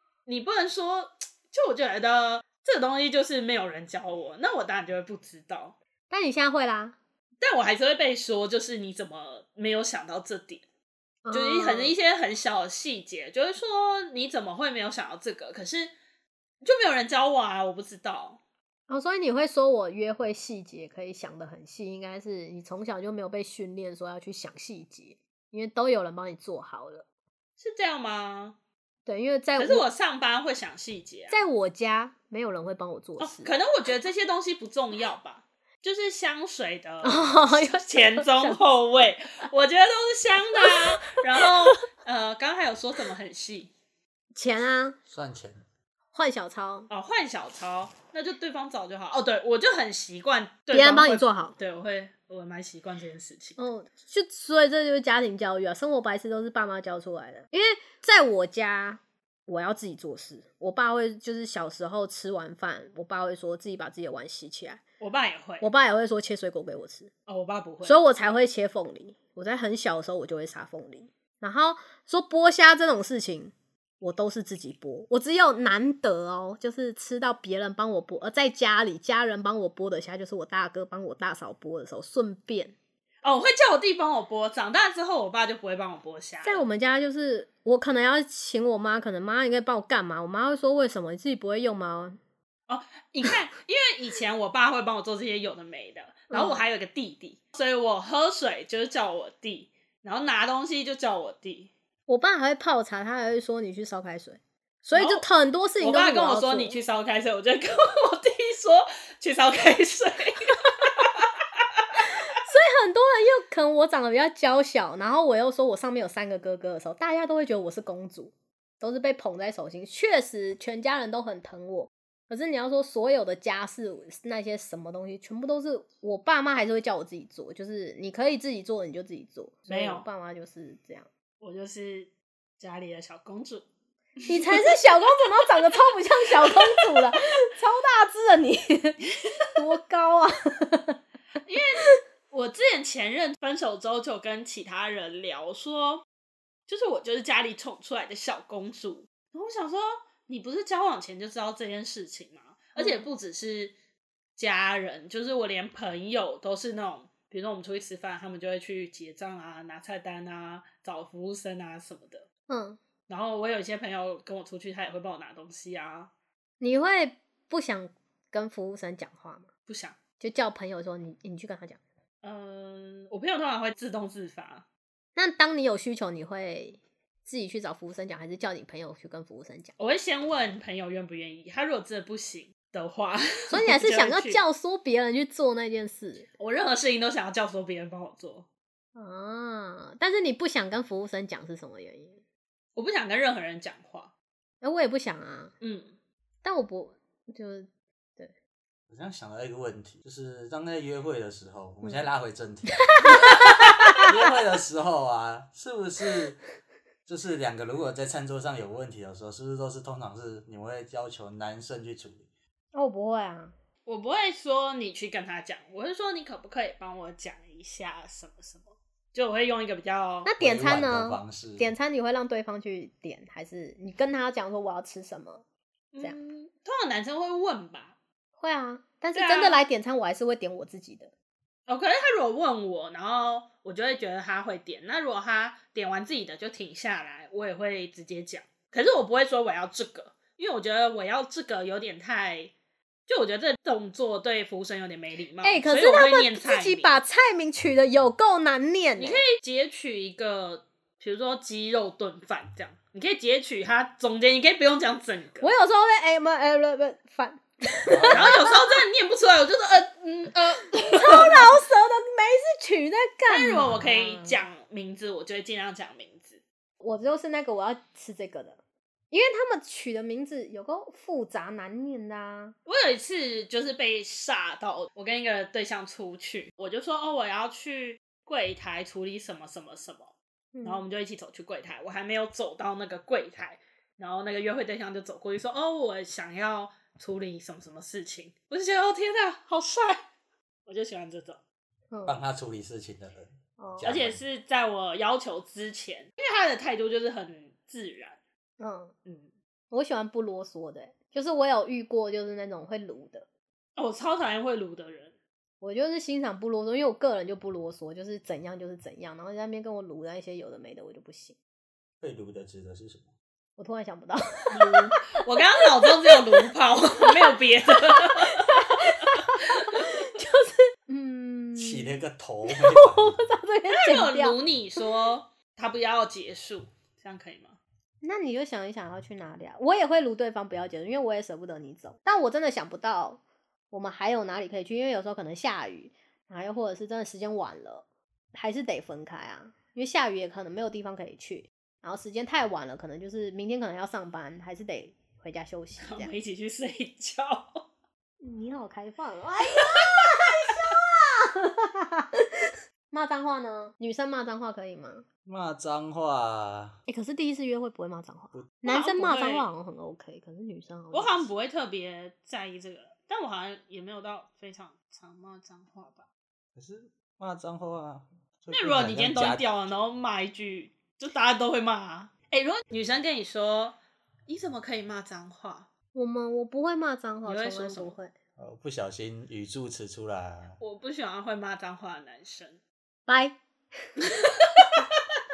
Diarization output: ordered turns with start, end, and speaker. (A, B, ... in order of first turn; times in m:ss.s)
0:00.3-0:05.8 A
0:06.1-0:07.0 B
0:07.4-0:10.6 A
0:11.2-0:11.9 B
0:11.3-0:15.9 A
0:16.6-0:18.4 A
0:18.9-0:27.0 B
0:27.6-0:28.6 A
0:29.0-0:29.8 B
0:29.6-0:31.4 A
0:31.3-0:33.5 B
0:33.2-0:43.7 A
0:37.0-0:38.6 B
0:40.6-0:41.7 B
0:44.3-0:45.0 B
0:45.1-0:45.6 C
0:46.1-0:46.9 B
0:46.9-0:53.6 A
0:50.7-0:51.5 B
0:53.6-1:04.8 B
1:05.0-1:05.7 A
1:05.6-1:07.1 B
1:07.3-1:08.0 A
1:07.8-1:22.7 B
1:23.2-1:26.6 A
1:26.4-1:32.2 B
1:32.7-1:41.7 A
1:36.3-1:36.6 B
1:42.1-1:46.8 B
1:44.9-1:45.2 A
1:45.8-1:51.2 A
1:52.0-2:11.1 B
2:09.7-2:10.1 A
2:11.4-2:13.6 A
2:14.2-2:14.8 A
2:14.2-2:21.0 B
2:16.3-2:17.0 A
2:21.4-2:26.0 A
2:26.7-2:33.7 A
2:32.8-2:33.0 B
2:34.4-2:42.2 A
2:42.5-2:42.8 B
2:43.1-2:46.1 A
2:46.6-2:49.5 B
2:49.7-2:50.0 A
2:50.2-2:51.8 B
2:52.2-2:54.6 A
2:55.2-2:59.7 B
2:59.8-3:04.4 A
3:03.5-3:06.3 B
3:06.4-3:08.5 A
3:08.9-3:12.2 B
3:12.8-3:14.1 A
3:14.6-3:15.5 B
3:15.6-3:15.9 A
3:16.4-3:18.3 B
3:18.9-3:22.9 C
3:22.9-3:24.0 B
3:24.0-3:26.4 C
3:27.0-3:32.3 C
3:32.7-3:33.5 B
3:33.8-3:40.3 A
3:40.2-3:45.4 B
3:40.4-3:41.7 C
3:45.9-3:47.9 A
3:48.4-3:51.1 B
3:49.1-3:49.6 A
3:51.7-4:02.5 A
4:03.1-4:07.0 A
4:05.4-4:09.2 B
4:09.0-4:15.5 A
4:15.4-4:18.7 B
4:17.9-4:18.3 C
4:18.1-4:21.6 A
4:20.9-4:24.4 B
4:23.3-4:26.4 A
4:26.8-4:28.6 B
4:29.1-4:32.5 B
4:32.6-4:40.1 A
4:40.5-4:40.8 B
4:40.6-4:50.0 A
4:50.7-4:51.4 A
4:51.9-4:52.2 B
4:52.0-4:54.2 C
4:53.6-4:53.9 B
4:53.8-4:58.2 A
4:58.6-4:58.9 B
4:59.7-5:03.2 B
5:03.8-5:05.1 A
5:05.6-5:11.3 B
5:12.0-5:13.1 C
5:13.6-5:15.0 B
5:14.5-5:18.9 A
5:15.8-5:16.5 B
5:17.0-5:24.4 B
5:19.4-5:19.8 A
5:21.6-5:23.2 C
5:23.7-5:27.6 A
5:28.0-5:46.1 B
5:45.8-5:47.6 A
5:48.2-5:55.0 B
5:55.2-5:56.8 C
5:56.9-6:01.3 B
5:58.6-5:59.5 A
6:00.9-6:06.0 A
6:06.6-6:09.4 C
6:08.5-6:15.7 A
6:15.9-6:18.1 B
6:17.2-6:17.9 A
6:18.4-6:20.6 C
6:20.6-6:22.6 A
6:23.1-6:23.4 B